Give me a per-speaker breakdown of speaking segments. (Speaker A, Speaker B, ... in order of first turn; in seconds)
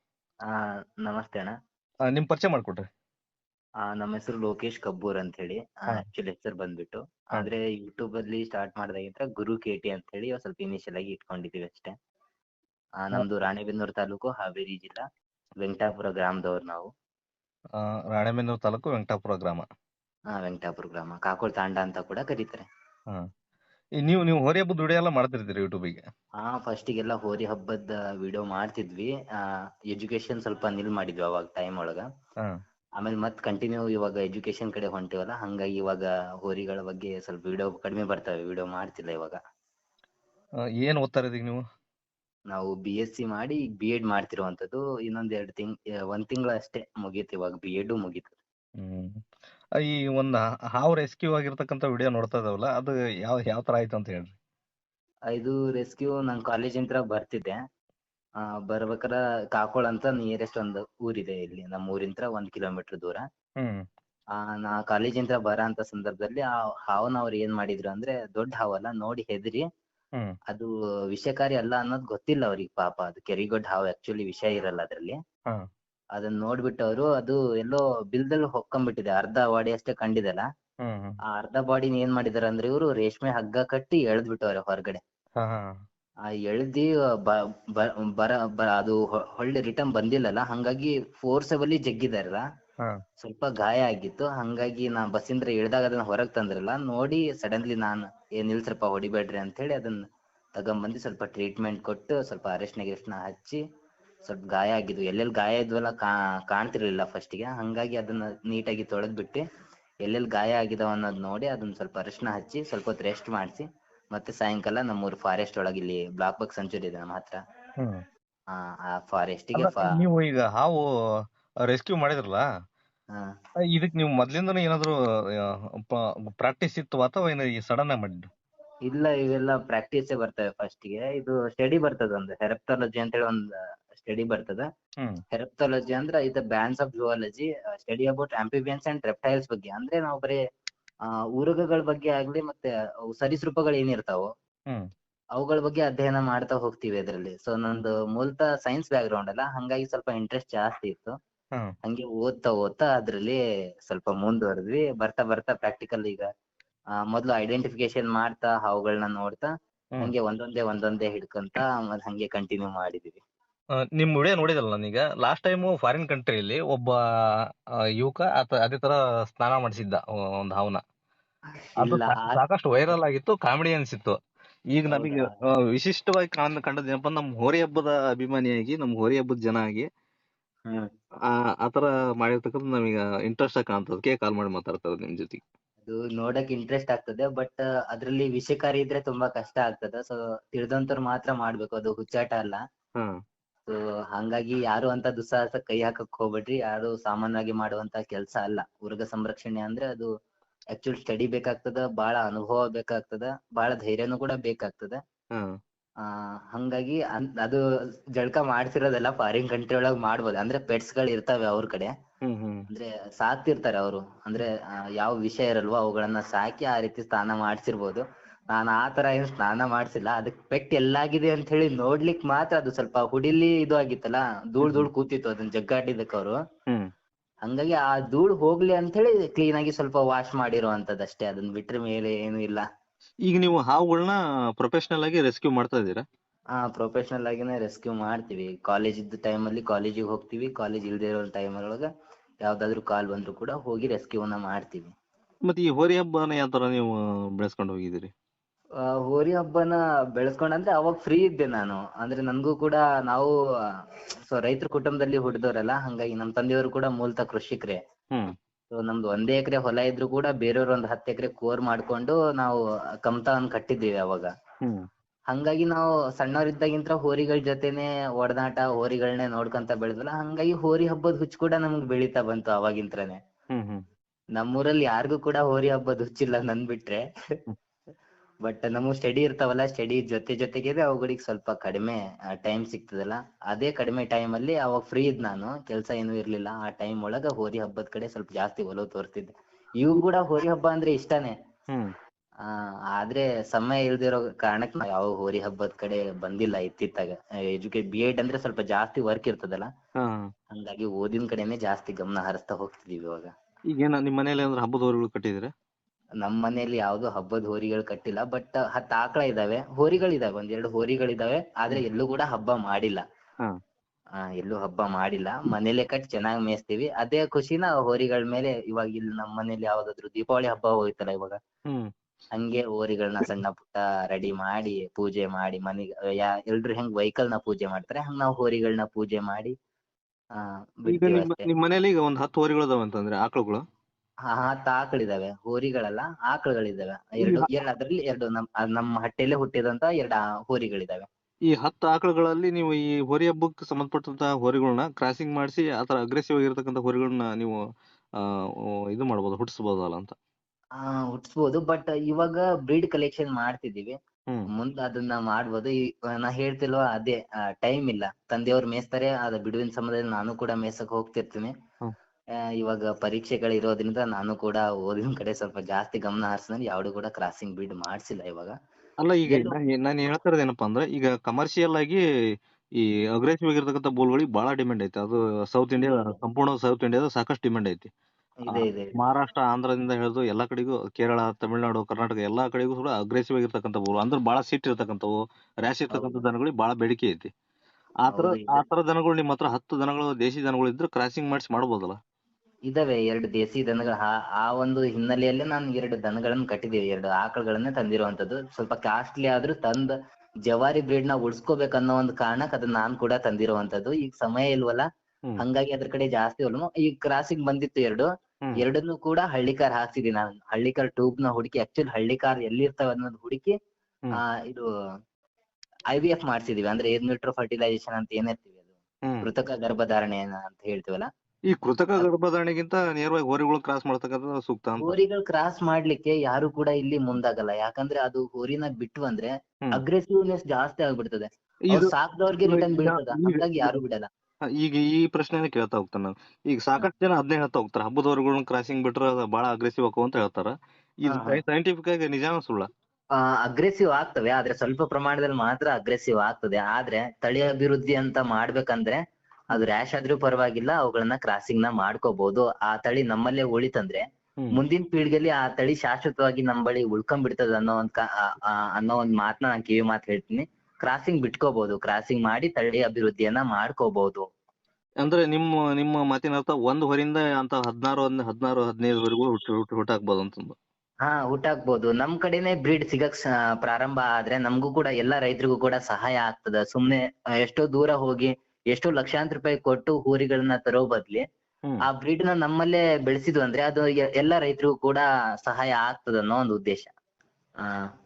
Speaker A: 0.5-1.5, 3.8-11.9, 13.0-15.0, 15.6-16.9, 20.4-22.6, 26.4-29.1, 29.9-32.0, 33.0-39.4, 42.5-48.4, 55.3-57.6, 58.7-63.2, 64.4-69.6, 70.5-75.2, 76.2-80.4, 81.3-85.0, 86.3-92.4, 93.2-100.0, 100.6-103.6, 104.2-109.4, 110.0-117.4, 118.5-120.0, 128.9-133.4, 133.9-134.6, 135.3-140.4, 141.4-144.3, 145.4-151.1, 151.8-156.3, 157.1-159.5, 160.0-163.2, 171.8-172.4, 174.9-175.3, 185.9-192.6, 193.7-200.1, 200.7-205.0, 206.5-207.6, 208.2-211.9, 212.7-218.0, 218.5-226.4, 227.5-232.6, 236.6-241.9, 242.4-244.9, 249.0-253.3, 254.3-257.8, 258.7-264.3, 265.3-273.2, 274.4-277.0, 278.4-291.3, 292.5-299.7, 300.5-303.3, 306.2-313.0, 314.2-321.4, 322.3-329.5, 330.4-331.5, 334.3-341.1, 350.8-354.0, 354.6-361.5, 362.6-368.5, 369.3-369.6, 375.8-376.2, 378.5-378.9, 385.9-386.2, 388.1-388.6, 392.7-399.9, 400.5-404.8, 405.4-408.1, 408.6-413.5, 414.2-414.6, 415.9-418.6, 419.2-421.1, 424.8-434.1, 441.1-441.4, 443.2-449.0, 449.5-454.0, 454.5-464.2, 471.0-481.2, 481.8-486.9
Speaker B: 2.1-2.9, 17.8-19.7, 24.0-26.0, 40.8-41.6, 48.8-49.1, 49.9-54.4, 80.8-81.2, 85.4-85.7, 119.6-120.8, 121.7-122.4, 123.7-124.9, 125.9-128.3, 164.0-166.9, 168.0-170.8, 171.8-174.2, 174.7-179.9, 181.6-185.4, 212.2-212.7, 233.3-236.0, 245.5-248.1, 273.5-273.8, 300.0-300.3, 303.7-305.5, 330.9-333.6, 337.2-337.5, 341.5-347.5, 348.9-350.1, 369.0-372.0, 373.2-377.9, 378.5-387.3, 388.0-392.0, 421.5-425.0, 432.4-433.8, 434.6-442.7, 465.0-470.6